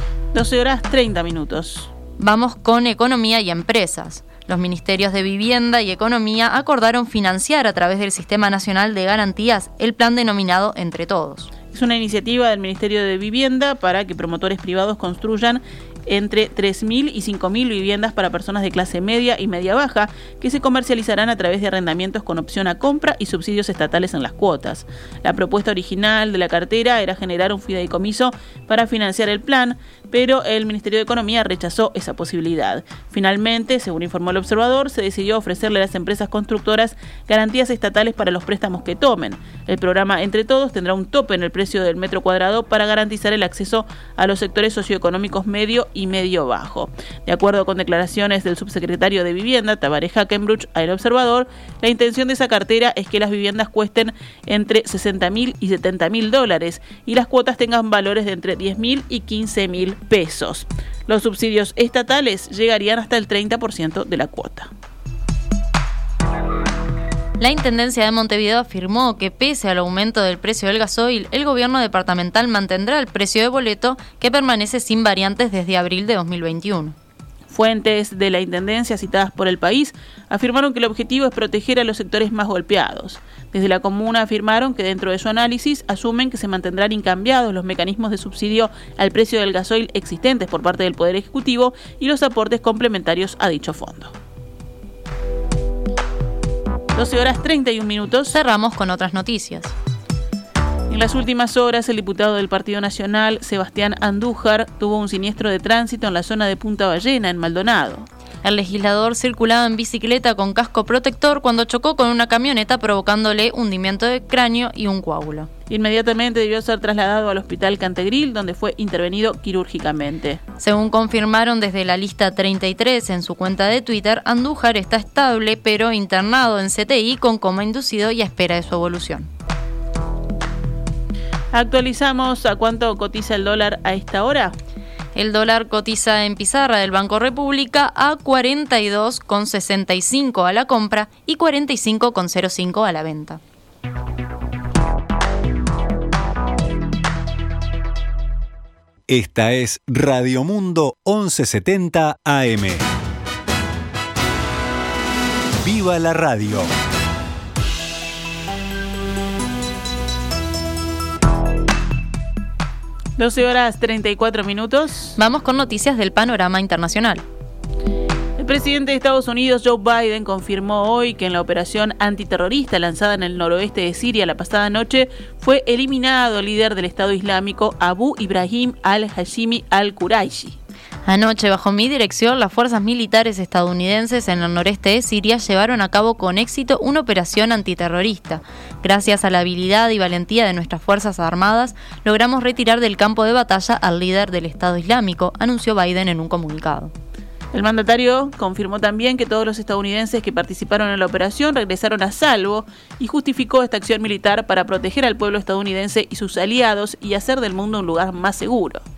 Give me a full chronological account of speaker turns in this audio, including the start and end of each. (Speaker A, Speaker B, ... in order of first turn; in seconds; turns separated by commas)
Speaker A: 0.3-1.9, Speaker B: 2.2-11.5, Speaker A: 11.7-64.7, Speaker B: 67.4-77.0, Speaker A: 77.5-94.2, Speaker A: 97.0-98.4, Speaker B: 98.3-99.7, Speaker A: 100.9-108.1, Speaker B: 108.4-115.5, Speaker A: 115.7-120.4, Speaker B: 120.6-129.3, Speaker A: 131.5-134.6, Speaker B: 135.2-143.4, Speaker C: 149.1-152.8, Speaker C: 155.6-156.7, Speaker A: 163.2-165.2, Speaker B: 165.2-167.2, Speaker A: 168.4-180.6, Speaker B: 181.1-196.9, Speaker A: 197.5-208.8